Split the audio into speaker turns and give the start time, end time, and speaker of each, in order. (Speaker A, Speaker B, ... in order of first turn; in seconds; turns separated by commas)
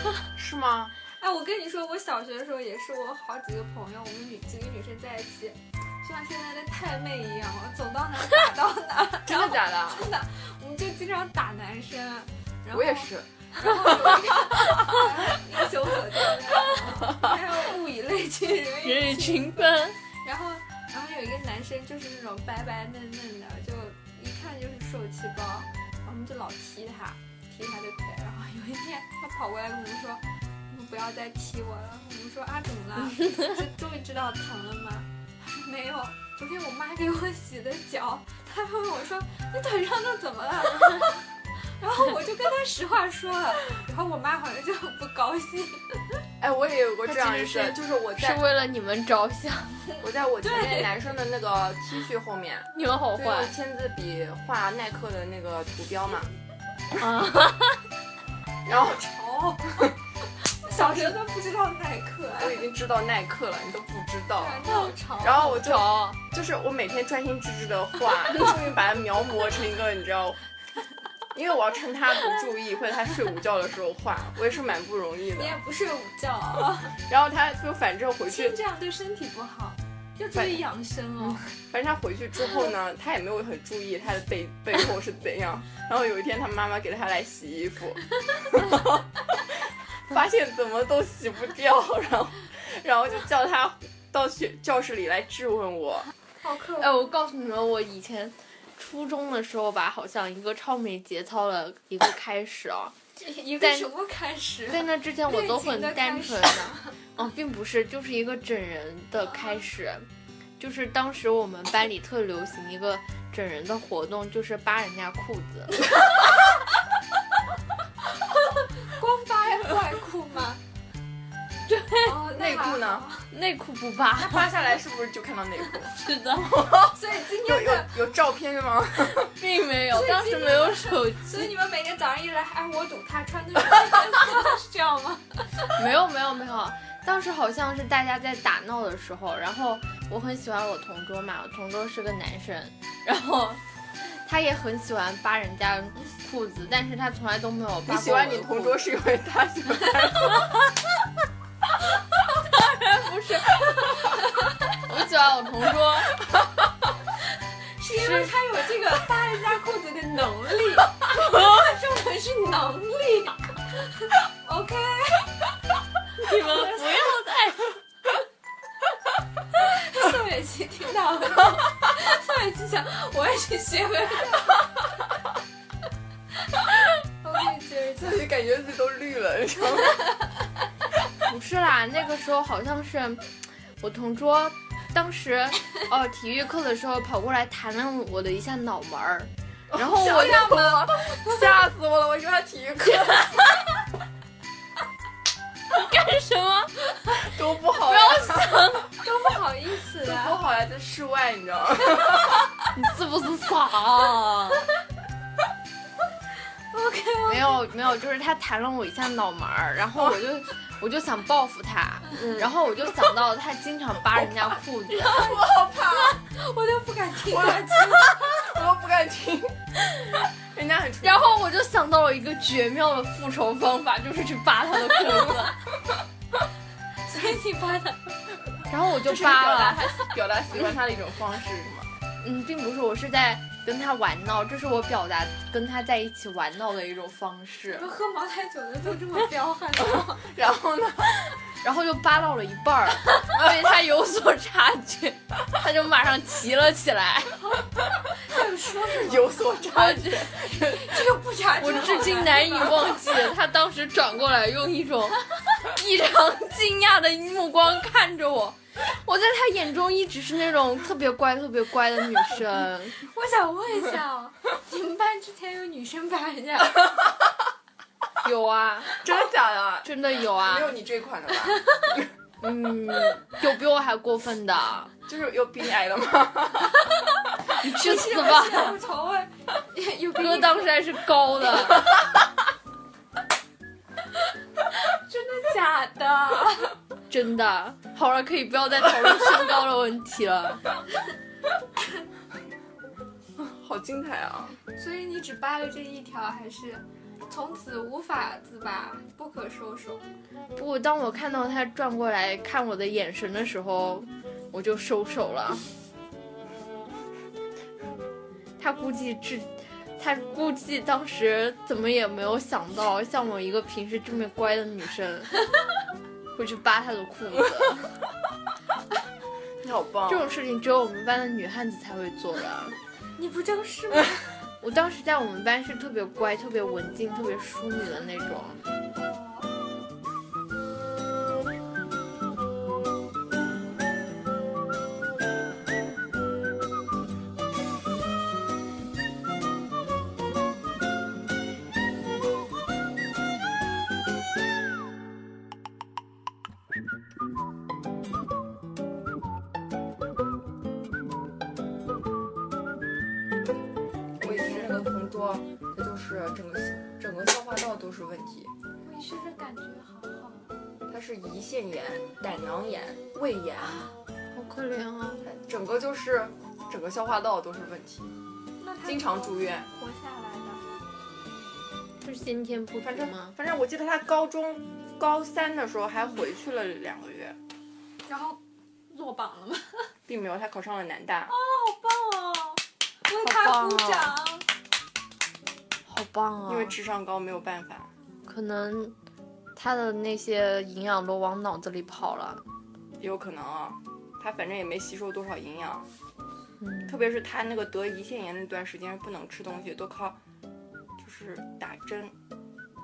Speaker A: 0.3-0.9, Speaker B: 1.1-19.5, Speaker A: 9.3-10.1, Speaker A: 12.7-14.2, Speaker C: 18.8-20.0, Speaker B: 20.2-46.1, Speaker A: 46.4-48.4, Speaker C: 47.1-50.0, Speaker A: 50.0-56.3, Speaker B: 50.4-50.9, Speaker C: 52.7-53.5, Speaker C: 57.0-57.8, Speaker A: 58.7-59.0, Speaker B: 58.7-59.9, Speaker B: 60.6-62.7, Speaker A: 60.7-61.1, Speaker A: 62.4-70.4, Speaker B: 64.4-65.6, Speaker C: 65.3-66.2, Speaker A: 71.3-75.6, Speaker B: 75.3-77.0, Speaker A: 77.0-78.6, Speaker B: 78.3-81.5, Speaker A: 80.3-80.6, Speaker A: 81.7-96.1, Speaker B: 96.4-97.1, Speaker C: 96.8-103.0, Speaker B: 103.2-107.0, Speaker C: 103.6-103.9, Speaker C: 104.7-110.1, Speaker C: 110.6-115.9, Speaker B: 118.8-120.6, Speaker C: 121.7-122.2, Speaker B: 122.0-123.3, Speaker A: 122.3-123.1, Speaker C: 123.3-124.5, Speaker A: 124.2-129.3, Speaker C: 126.0-126.7, Speaker B: 126.9-128.0, Speaker C: 129.2-131.5, Speaker B: 129.9-135.7, Speaker C: 135.8-148.9, Speaker A: 147.9-150.5, Speaker C: 152.4-153.9, Speaker C: 154.8-156.1, Speaker B: 157.8-165.4, Speaker C: 157.9-158.3, Speaker C: 166.2-167.8, Speaker B: 166.4-167.1, Speaker B: 169.6-174.7, Speaker B: 177.2-178.3, Speaker A: 178.0-180.1, Speaker C: 181.2-190.9, Speaker A: 189.8-193.5, Speaker B: 189.9-191.4, Speaker C: 195.7-196.7, Speaker A: 197.1-198.7, Speaker C: 197.8-198.9, Speaker B: 199.0-200.4, Speaker A: 200.0-202.5, Speaker C: 202.7-204.7, Speaker B: 206.7-207.6, Speaker C: 207.3-215.3, Speaker A: 209.9-210.2, Speaker B: 214.9-218.4, Speaker A: 215.0-216.2, Speaker A: 217.3-219.6, Speaker A: 220.5-221.3, Speaker C: 221.0-225.6, Speaker B: 227.1-228.0, Speaker C: 228.7-229.9, Speaker A: 229.0-231.9, Speaker C: 232.2-237.9, Speaker B: 237.7-240.2, Speaker A: 240.0-241.1, Speaker C: 241.6-247.4, Speaker B: 248.2-249.5, Speaker A: 249.0-251.0, Speaker C: 249.7-250.5, Speaker B: 250.4-253.1, Speaker C: 251.6-263.0, Speaker B: 263.1-266.9, Speaker C: 268.2-269.0, Speaker A: 269.0-271.7, Speaker C: 269.8-270.8, Speaker C: 272.4-274.9, Speaker A: 275.1-276.9, Speaker B: 277.5-280.8, Speaker C: 277.6-278.8, Speaker C: 280.2-282.0, Speaker B: 284.7-286.7, Speaker C: 287.1-290.6, Speaker A: 293.4-294.6, Speaker B: 294.6-300.1, Speaker C: 300.6-305.6, Speaker C: 308.6-315.3, Speaker C: 316.4-317.9, Speaker A: 319.6-320.4, Speaker C: 320.1-322.8, Speaker B: 323.2-324.2, Speaker C: 324.6-328.6, Speaker B: 328.9-329.6, Speaker A: 354.2-358.5, Speaker C: 354.2-354.7, Speaker B: 358.8-360.5, Speaker A: 360.9-363.8, Speaker B: 363.6-363.9, Speaker C: 364.3-365.3, Speaker A: 365.2-368.1, Speaker B: 368.6-370.6, Speaker A: 368.8-369.7, Speaker C: 372.0-373.4, Speaker A: 372.8-377.4, Speaker B: 378.1-379.9, Speaker A: 380.1-381.3, Speaker B: 381.3-384.5, Speaker C: 383.2-384.1, Speaker C: 385.9-386.8, Speaker A: 386.5-387.9, Speaker C: 388.2-388.9, Speaker C: 389.6-392.4, Speaker A: 393.0-395.9, Speaker C: 396.6-396.9, Speaker A: 396.9-400.2, Speaker A: 401.0-402.1